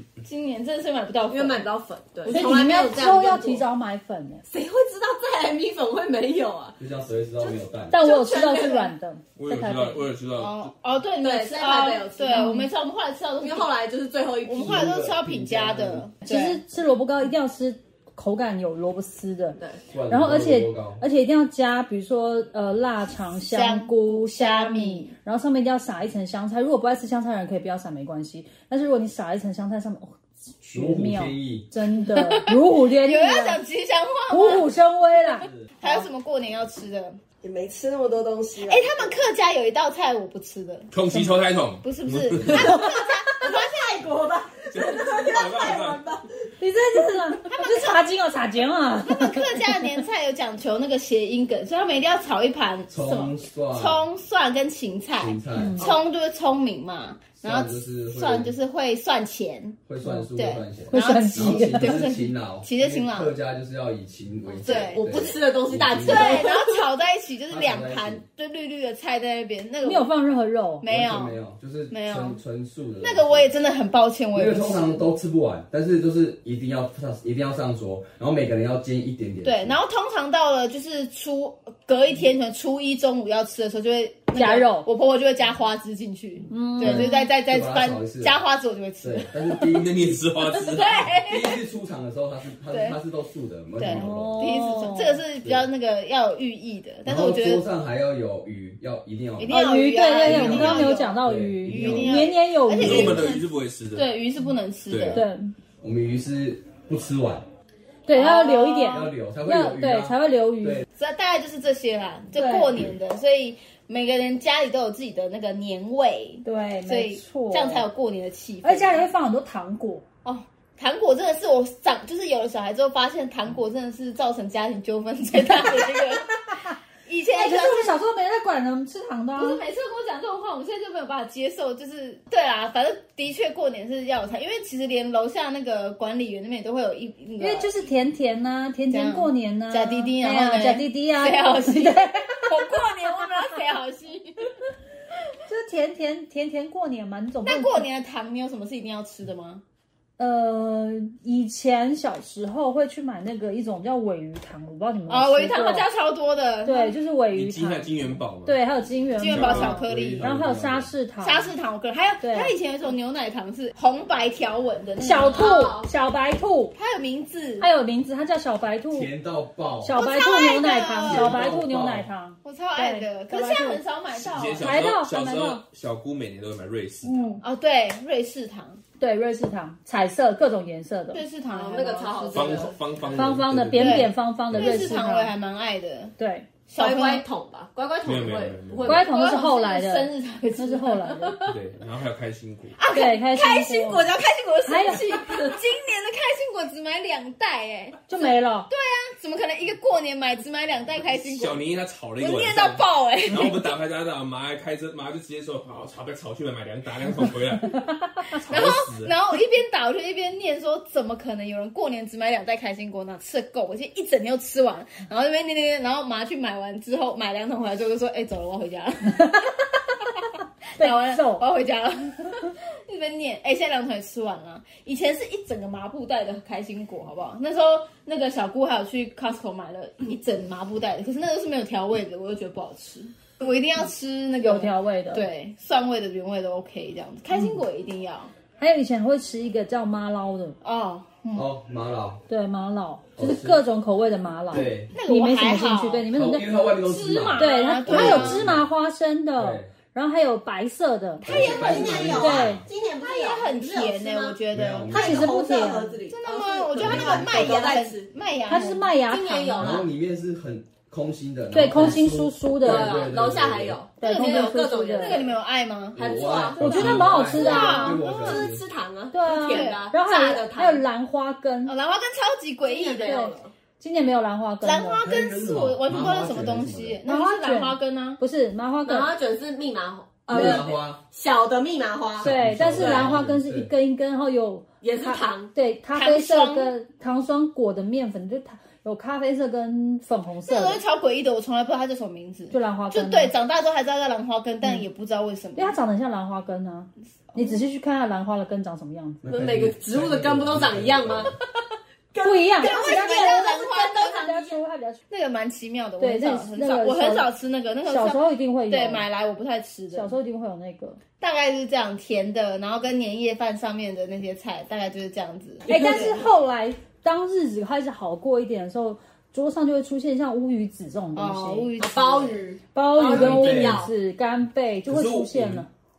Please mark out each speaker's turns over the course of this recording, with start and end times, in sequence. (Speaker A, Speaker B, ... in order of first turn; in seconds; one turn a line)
Speaker A: 0.2-1.7
Speaker B: 1.3-3.7
Speaker C: 2.3-4.4
Speaker B: 4.5-6.8
Speaker D: 6.8-8.0
Speaker B: 7.4-8.9
Speaker C: 7.9-10.1
Speaker A: 8.2-8.9
Speaker E: 9.4-10.7
Speaker A: 10.4-13.7
Speaker B: 11.2-12.6
Speaker C: 12.3-12.7
Speaker B: 13.4-14.9
Speaker A: 14.4-16.6
Speaker D: 14.6-16.1
Speaker C: 16.2-19.6
Speaker D: 19.9-21.0
Speaker C: 20.1-33.6
Speaker A: 23.4-25.1
Speaker D: 30.7-31.7
Speaker A: 32.0-34.7
Speaker C: 34.3-35.5
Speaker A: 35.8-37.2
Speaker B: 37.4-39.1
Speaker A: 38.6-40.9
Speaker E: 40.9-42.9
Speaker A: 41.8-43.7
Speaker B: 42.5-47.2
Speaker C: 42.6-42.9
Speaker E: 44.7-46.0
Speaker C: 46.6-49.8
Speaker A: 47.5-48.0
Speaker A: 49.0-59.8
Speaker D: 52.9-54.1
Speaker D: 55.2-55.9
Speaker C: 55.6-55.9
Speaker D: 57.4-58.5
Speaker D: 59.9-66.5
Speaker A: 60.3-63.3
Speaker C: 60.9-62.0
Speaker B: 64.6-66.8
Speaker A: 64.6-65.3
Speaker A: 66.0-70.1
Speaker D: 67.5-68.2
Speaker C: 69.8-70.8
Speaker A: 70.8-71.4
Speaker D: 70.9-73.5
Speaker A: 71.9-72.4
Speaker A: 73.0-75.0
Speaker D: 74.3-79.8
Speaker A: 79.5-89.7
Speaker C: 84.3-84.9
Speaker C: 86.5-87.3
Speaker D: 86.8-88.4
Speaker D: 89.0-90.2
Speaker E: 89.6-91.2
Speaker A: 90.4-91.7
Speaker D: 91.2-94.6
Speaker A: 92.7-93.0
Speaker A: 93.8-97.7
Speaker C: 93.8-95.2
Speaker D: 97.0-99.6
Speaker A: 99.4-105.2
Speaker C: 99.4-103.3
Speaker D: 100.2-102.4
Speaker E: 102.7-104.1
Speaker E: 104.9-105.2
Speaker C: 105.1-105.5
Speaker D: 105.8-107.5
Speaker C: 108.1-110.9
Speaker A: 108.1-109.1
Speaker D: 108.9-110.9
Speaker A: 111.0-119.1
Speaker C: 112.4-112.8
Speaker C: 116.4-117.9
Speaker C: 118.6-120.0
Speaker A: 120.2-126.4
Speaker A: 127.1-128.0
Speaker C: 127.3-129.6
Speaker A: 129.3-137.7
Speaker C: 137.4-142.8
Speaker A: 138.9-144.5
Speaker C: 145.5-147.8
Speaker A: 147.4-149.6
Speaker C: 150.2-155.9
Speaker A: 155.1-157.0
Speaker C: 156.6-161.5
Speaker E: 157.3-158.6
Speaker A: 159.2-160.4
Speaker E: 159.3-159.8
Speaker D: 159.6-160.9
Speaker A: 161.2-165.8
Speaker C: 162.2-162.5
Speaker C: 165.0-166.8
Speaker B: 165.3-165.9
Speaker A: 166.8-167.7
Speaker C: 167.6-169.1
Speaker D: 168.9-170.0
Speaker C: 169.8-173.8
Speaker A: 169.9-171.5
Speaker D: 171.1-172.1
Speaker A: 172.4-174.9
Speaker E: 174.1-177.2
Speaker C: 174.6-175.6
Speaker C: 177.1-177.4
Speaker A: 177.4-178.8
Speaker C: 179.0-181.2
Speaker A: 181.1-182.8
Speaker B: 181.5-182.8
Speaker E: 182.3-184.9
Speaker C: 183.1-185.3
Speaker A: 183.8-186.2
Speaker C: 186.2-186.5
Speaker A: 186.7-187.2
Speaker B: 186.8-189.1
Speaker E: 188.0-189.0
Speaker C: 188.9-191.4
Speaker A: 188.9-191.6
Speaker E: 191.4-192.8
Speaker A: 192.8-201.6
Speaker C: 192.9-194.1
Speaker C: 194.7-195.4
Speaker C: 198.1-198.7
Speaker E: 201.2-207.8
Speaker A: 202.2-203.8
Speaker C: 207.8-208.3
Speaker E: 208.4-209.2
Speaker A: 208.4-219.5
Speaker A: 220.1-238.3
Speaker C: 220.8-221.4
Speaker C: 234.4-235.2
Speaker C: 237.3-237.6
Speaker C: 238.6-240.6
Speaker A: 240.6-241.1
Speaker D: 241.3-242.2
Speaker C: 242.3-246.5
Speaker D: 243.2-243.7
Speaker D: 244.5-244.9
Speaker A: 244.9-246.1
Speaker D: 246.1-248.7
Speaker A: 246.8-248.5
Speaker C: 247.3-252.6
Speaker D: 249.4-249.7
Speaker B: 251.2-258.1
Speaker D: 251.2-252.7
Speaker A: 251.7-252.2
Speaker A: 253.0-254.9
Speaker D: 254.5-255.4
Speaker C: 254.9-255.9
Speaker A: 256.1-258.9
Speaker D: 256.8-257.7
Speaker C: 258.5-259.9
Speaker B: 259.1-259.9
Speaker D: 259.6-263.8
Speaker C: 261.5-263.1
Speaker B: 261.8-262.0
Speaker B: 262.6-265.3
Speaker C: 264.0-265.2
Speaker A: 264.0-266.1
Speaker D: 265.9-268.6
Speaker B: 265.9-270.9
Speaker C: 266.6-268.0
Speaker E: 266.7-267.2
Speaker A: 267.2-268.5
Speaker C: 269.1-271.7
Speaker A: 269.5-269.9
Speaker A: 271.7-273.4
Speaker B: 272.6-273.5
Speaker C: 273.8-275.1
Speaker A: 274.6-278.2
Speaker D: 275.0-277.0
Speaker C: 277.1-279.1
Speaker B: 278.9-283.2
Speaker D: 280.3-281.0
Speaker C: 280.3-280.6
Speaker D: 282.2-283.7
Speaker C: 282.2-290.8
Speaker B: 284.8-285.5
Speaker A: 285.9-286.8
Speaker A: 290.4-295.8
Speaker C: 292.5-293.3
Speaker C: 295.6-299.2
Speaker D: 299.2-301.4
Speaker B: 299.3-301.4
Speaker B: 302.1-304.6
Speaker C: 302.2-305.0
Speaker A: 302.6-304.2
Speaker A: 305.1-310.2
Speaker C: 306.0-307.3
Speaker C: 307.9-309.1
Speaker C: 309.9-311.0
Speaker A: 311.2-316.3
Speaker B: 315.7-316.2
Speaker C: 315.7-321.7
Speaker A: 321.1-322.4
Speaker B: 321.8-323.9
Speaker C: 322.7-325.7
Speaker D: 323.1-323.9
Speaker E: 324.9-325.7